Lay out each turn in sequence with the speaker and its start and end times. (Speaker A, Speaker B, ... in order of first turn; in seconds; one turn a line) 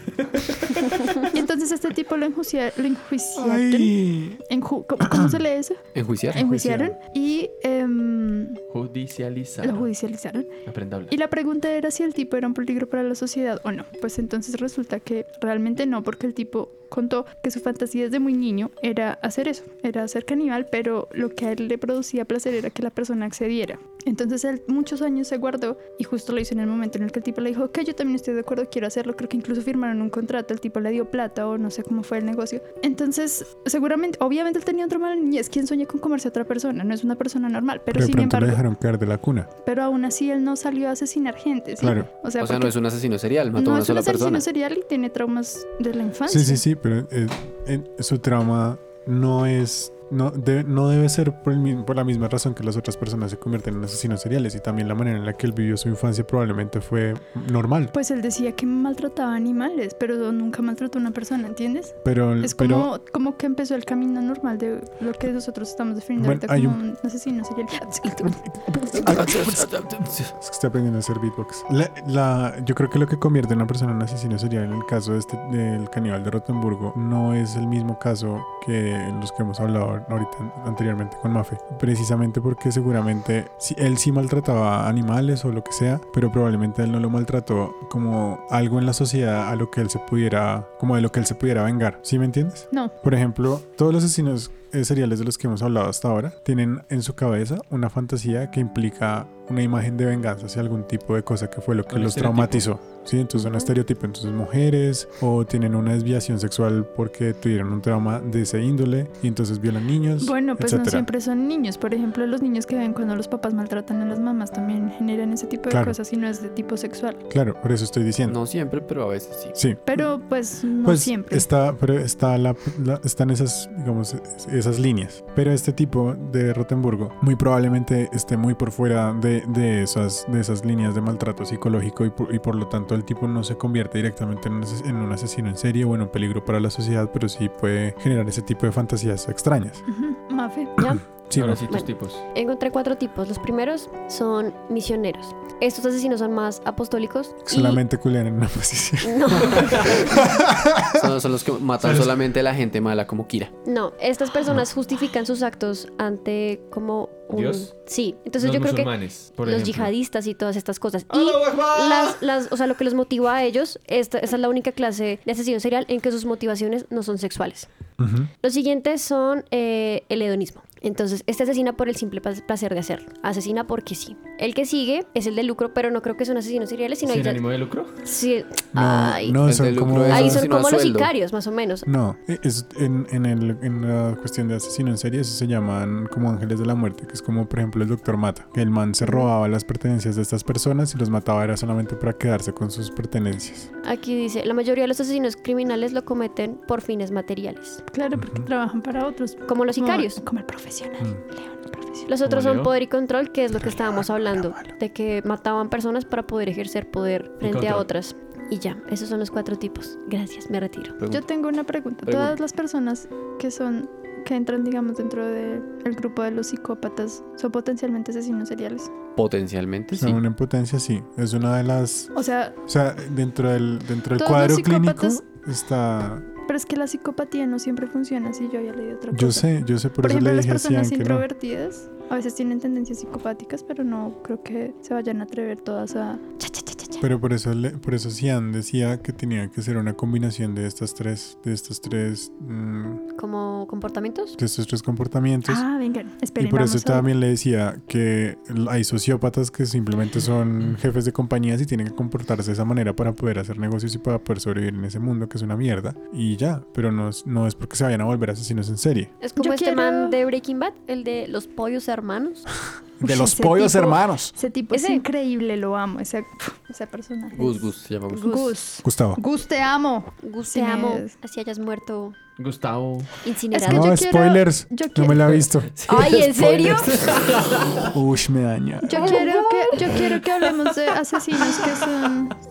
Speaker A: 0.3-0.7
Speaker B: 0.8-5.8
Speaker C: 3.4-4.4
Speaker C: 5.0-5.3
Speaker D: 5.9-6.5
Speaker C: 6.3-7.0
Speaker B: 6.3-8.6
Speaker A: 8.7-9.9
Speaker B: 9.6-10.5
Speaker A: 10.7-11.1
Speaker B: 11.1-38.6
Speaker C: 37.9-39.5
Speaker B: 39.6-42.8
Speaker C: 41.8-42.1
Speaker D: 42.4-44.5
Speaker B: 43.6-46.6
Speaker C: 46.3-58.0
Speaker B: 57.9-68.4
Speaker C: 62.0-62.9
Speaker C: 66.2-66.8
Speaker C: 68.2-111.1
Speaker D: 68.9-70.3
Speaker A: 101.9-102.7
Speaker B: 110.2-117.2
Speaker C: 115.7-116.0
Speaker C: 117.3-118.4
Speaker D: 118.3-119.6
Speaker C: 119.5-120.0
Speaker B: 119.9-121.5
Speaker C: 120.8-139.8
Speaker B: 139.9-140.8
Speaker E: 140.8-141.0
Speaker C: 140.8-141.6
Speaker A: 141.3-142.2
Speaker E: 141.7-147.8
Speaker C: 147.4-151.1
Speaker E: 149.0-150.2
Speaker D: 149.4-149.8
Speaker A: 149.6-149.9
Speaker D: 151.0-153.6
Speaker A: 151.8-152.2
Speaker E: 153.6-167.7
Speaker A: 157.3-157.7
Speaker A: 158.4-159.9
Speaker A: 161.1-162.2
Speaker C: 168.0-168.3
Speaker E: 168.4-177.4
Speaker A: 177.0-178.0
Speaker E: 178.1-179.4
Speaker C: 178.8-180.5
Speaker D: 179.4-181.1
Speaker E: 180.1-181.9
Speaker C: 181.9-193.7
Speaker E: 193.8-197.8
Speaker B: 197.9-202.1
Speaker C: 198.2-198.5
Speaker E: 199.5-200.2
Speaker E: 202.1-211.0
Speaker A: 202.2-202.7
Speaker C: 203.6-204.8
Speaker A: 207.4-207.9
Speaker D: 211.0-211.2
Speaker B: 211.1-218.9
Speaker D: 212.1-212.4
Speaker D: 219.2-220.2
Speaker C: 219.9-222.1
Speaker B: 222.1-222.6
Speaker C: 222.7-226.3
Speaker B: 224.2-225.2
Speaker B: 226.5-237.0
Speaker C: 229.1-231.3
Speaker C: 237.0-243.0
Speaker E: 243.2-244.4
Speaker C: 244.4-245.7
Speaker B: 245.5-247.1
Speaker C: 246.4-259.1
Speaker E: 259.2-262.5
Speaker B: 259.4-260.2
Speaker C: 263.0-264.4
Speaker B: 263.0-267.6
Speaker E: 264.7-265.1
Speaker D: 267.3-268.3
Speaker E: 268.1-268.5
Speaker B: 268.2-271.1
Speaker C: 268.8-269.2
Speaker E: 270.2-272.2
Speaker A: 272.4-273.1
Speaker E: 273.2-274.0
Speaker B: 273.5-275.4
Speaker C: 273.6-275.7
Speaker D: 275.8-277.9
Speaker E: 275.9-277.1
Speaker C: 277.9-279.1
Speaker B: 278.8-282.4
Speaker D: 279.0-279.3